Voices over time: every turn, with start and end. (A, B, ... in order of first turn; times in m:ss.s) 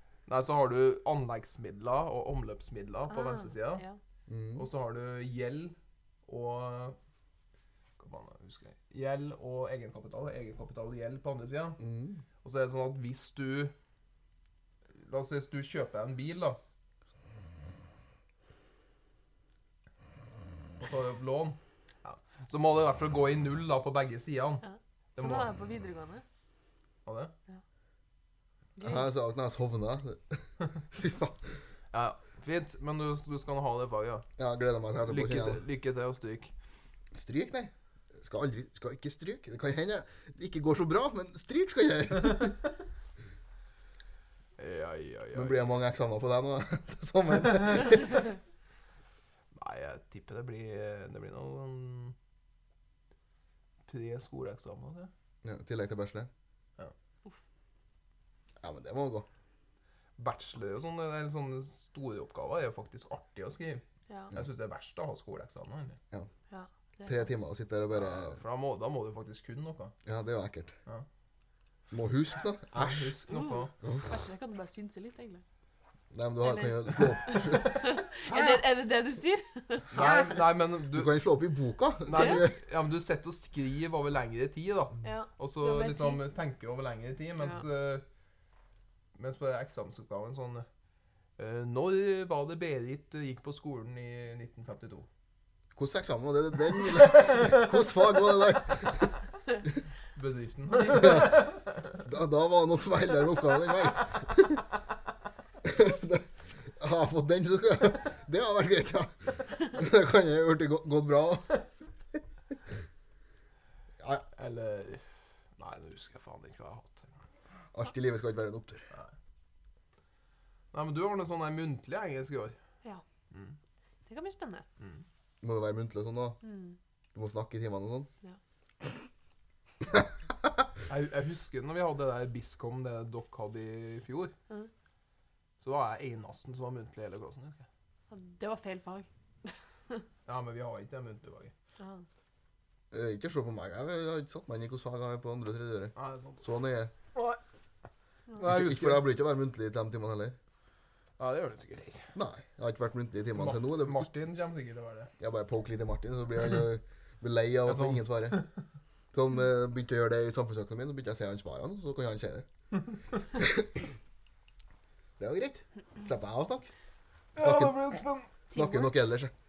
0:00.3-0:03.8 A
0:03.1-0:04.0 B
0:04.3-0:04.6 C
0:04.6-0:07.0 A
0:08.0-0:11.8 A
0:11.8-0:12.2 C
0:12.4-0:13.7 A
0:14.9-0:16.6 A
0:20.8-0:24.6 A
0:24.6-0:26.2 B
0:25.2-0:25.5 A
0:27.0-0:27.3 A
0:28.8-0:29.1 B
0:28.8-0:31.5 C
0:31.9-0:34.3 A
0:34.4-0:35.6 C
0:35.0-0:36.5 A
0:37.1-0:42.6 C
0:44.6-0:45.8 A
0:45.3-0:48.3 C
0:49.5-0:52.1 A
0:53.8-0:55.1 A
0:55.4-0:56.3 C
0:58.6-0:59.2 C
1:00.2-1:06.0 A
1:06.5-1:07.3 B
1:07.0-1:08.4 C
1:07.9-1:09.9 A
1:10.0-1:10.7 C
1:11.9-1:13.1 C
1:12.7-1:13.7 A
1:13.3-1:15.4 B
1:13.8-1:14.1 C
1:16.1-1:18.6 C
1:16.4-1:20.2 B
1:19.9-1:21.1 A
1:20.0-1:22.6 C
1:22.1-1:28.0 A
1:22.1-1:22.4 B
1:25.0-1:26.2 B
1:29.1-1:30.7 A
1:31.4-1:35.1 A
1:35.7-1:39.1 C
1:40.1-1:42.0 A
1:41.0-1:41.3 C
1:42.0-1:44.6 C
1:45.6-1:51.6 C
1:54.0-1:54.2 C
1:54.3-1:55.0 A
1:55.6-1:57.1 A
1:57.7-1:58.9 C
2:00.7-2:02.6 A
2:04.0-2:04.6 B
2:05.4-2:06.4 C
2:06.4-2:06.8 B
2:07.1-2:08.1 C
2:10.9-2:14.3 A
2:15.6-2:17.6 A
2:18.1-2:20.0 B
2:20.2-2:21.5 A
2:21.8-2:22.0 B
2:22.9-2:26.9 C
2:26.0-2:26.4 A
2:27.1-2:27.4 A
2:28.4-2:29.0 A
2:28.4-2:30.4 C
2:31.2-2:32.1 A
2:32.1-2:34.1 C
2:33.4-2:35.1 A
2:35.2-2:38.4 C
2:37.6-2:38.5 A
2:39.1-2:42.4 C
2:43.3-2:43.8 C
2:45.2-2:46.7 C
2:47.4-2:48.3 A
2:47.4-2:47.7 C
2:48.5-2:48.9 B
2:48.5-2:49.3 C